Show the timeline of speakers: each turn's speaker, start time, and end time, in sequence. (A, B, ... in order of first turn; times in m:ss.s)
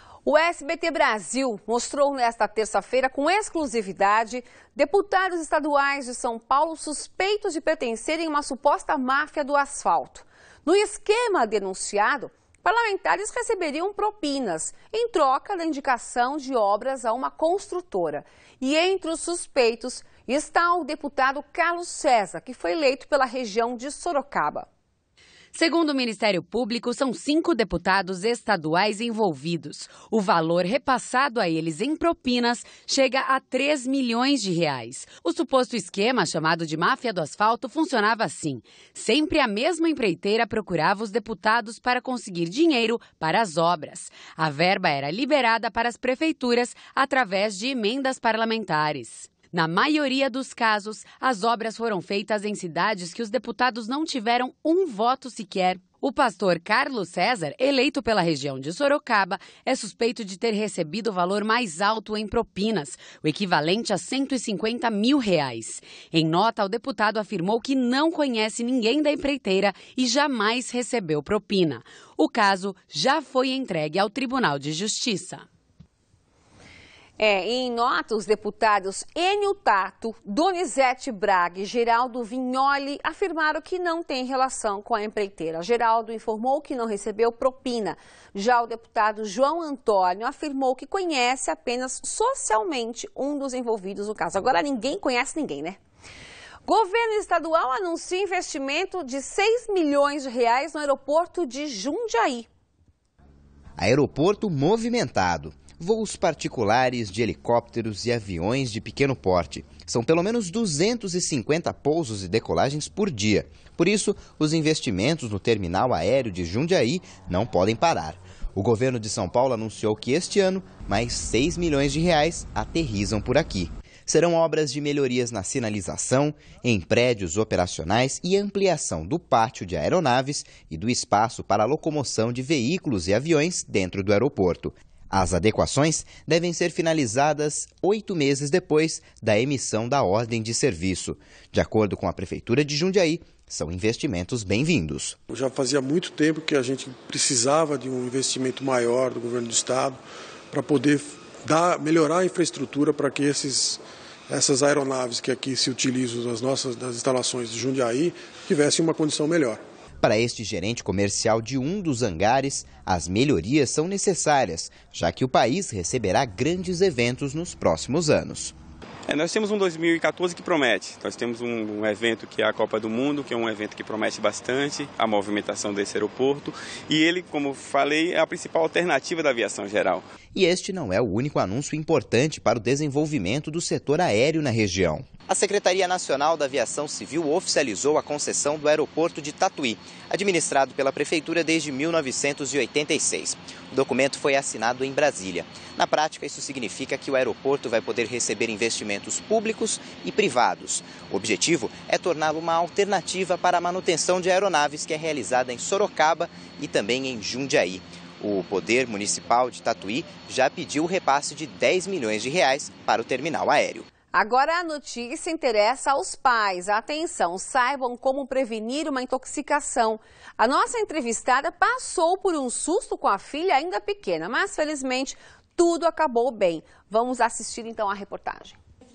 0:00.2-0:24.7 A
0:25.5-1:15.4 B
1:17.2-1:35.8 A
1:36.6-1:42.5 A
1:43.8-2:25.2 C
2:25.3-2:30.0 D
2:30.5-2:39.6 D
2:40.0-2:48.5 C
2:49.1-3:00.1 E
3:00.3-3:33.9 C
3:34.1-3:48.6 A